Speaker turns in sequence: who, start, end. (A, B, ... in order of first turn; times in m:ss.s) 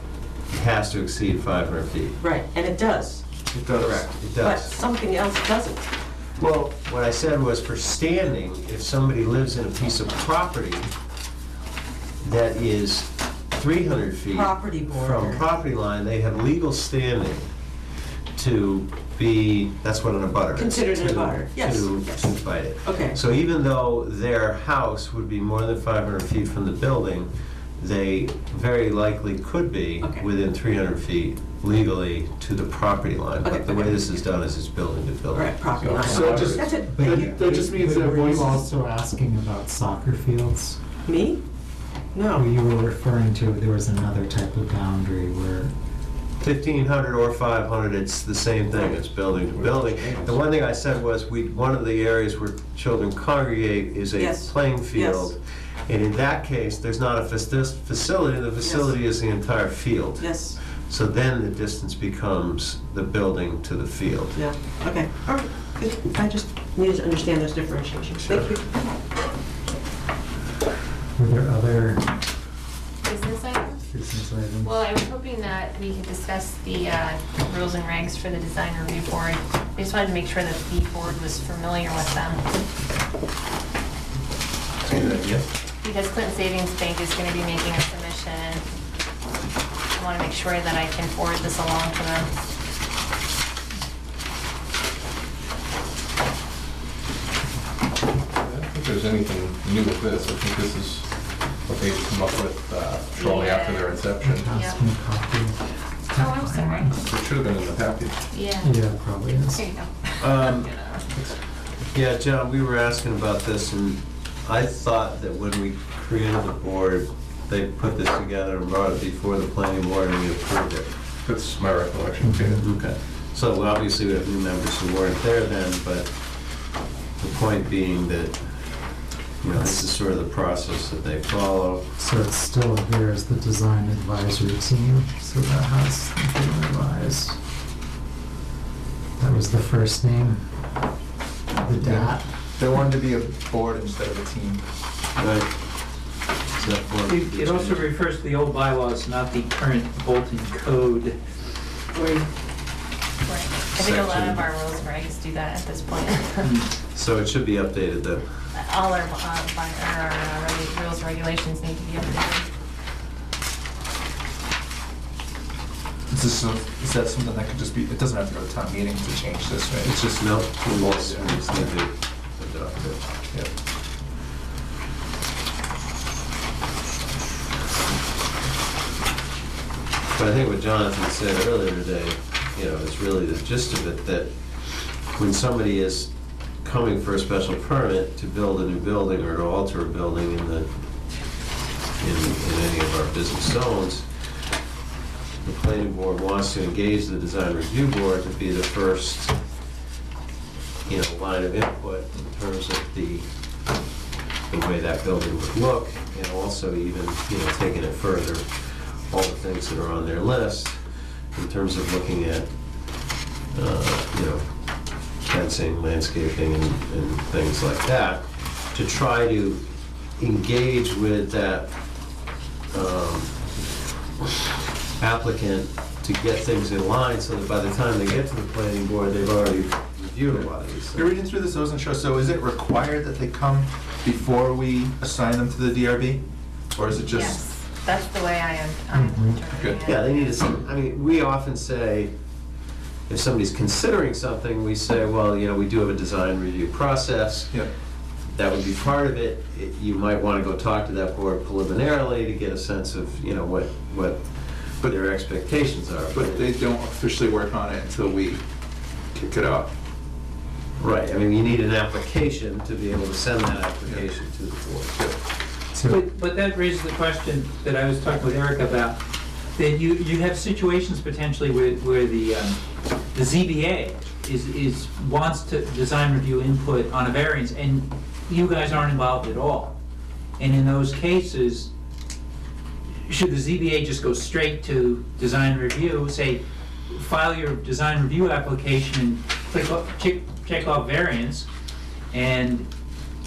0:00.5-0:02.2 A
0:02.2-0:03.2 B
0:03.5-0:04.1 C
0:03.6-0:04.8 A
0:04.5-0:05.8 B
0:06.4-0:10.9 A
0:12.2-0:17.5 A
0:14.4-0:15.2 B
0:18.4-0:36.2 A
0:20.8-0:21.9 B
0:33.4-0:33.9 B
0:35.4-0:37.4 B
0:35.8-0:36.7 D
0:36.1-0:38.6 C
0:36.9-0:40.8 E
0:41.1-0:41.4 B
0:42.2-0:42.4 B
0:42.3-0:45.7 E
0:46.4-1:04.4 A
0:54.2-0:54.5 B
1:00.2-1:00.6 B
1:04.4-1:08.6 B
1:11.2-1:12.1 E
1:13.0-1:13.8 F
1:13.9-1:14.7 E
1:14.6-1:22.5 F
1:24.9-1:25.4 D
1:25.8-1:28.6 F
1:30.0-1:32.3 F
1:38.4-1:44.6 D
1:43.2-1:44.8 F
1:44.2-1:45.6 E
1:46.1-1:47.0 E
1:46.2-1:47.0 F
1:47.0-1:48.2 D
1:48.3-1:48.7 F
1:48.6-1:49.6 E
1:49.6-1:51.0 F
1:50.2-1:50.7 A
1:51.9-2:00.9 A
2:01.2-2:02.6 D
2:02.2-2:02.6 E
2:02.6-2:06.1 A
2:07.2-2:08.4 A
2:09.4-2:11.8 A
2:09.6-2:09.8 E
2:12.0-2:17.4 E
2:19.2-2:20.4 E
2:21.6-2:22.2 E
2:21.8-2:24.6 C
2:25.2-2:25.5 A
2:26.5-2:27.9 A
2:27.0-2:31.2 G
2:31.9-2:32.3 B
2:33.2-2:36.6 F
2:36.4-2:36.7 G
2:36.9-2:38.3 A
2:38.6-2:42.4 F
2:46.1-2:51.7 C
2:49.8-2:53.0 A
3:00.1-3:04.3 A
3:04.9-3:06.1 A
3:06.6-3:10.7 A
3:12.0-3:14.1 A
3:15.4-3:19.4 A
3:20.9-3:23.3 A
3:24.5-3:30.8 A
3:31.3-3:32.5 A
3:33.5-3:34.4 A
3:35.2-3:39.6 A
3:40.2-3:41.7 A
3:42.7-3:43.3 A
3:45.0-3:51.1 A
3:50.9-3:56.2 C
3:56.7-3:57.4 C
3:57.0-4:00.3 F
3:59.0-3:59.4 E
3:59.8-4:02.1 A
4:03.1-4:07.5 A
4:08.3-4:16.4 A
4:16.1-4:18.4 C
4:19.1-4:19.7 C
4:20.8-4:25.0 A
4:25.7-4:26.0 E
4:25.8-4:29.0 G
4:29.5-4:32.6 G
4:33.1-4:39.7 G
4:40.4-4:41.7 G
4:43.1-4:51.5 G
4:52.1-4:52.7 G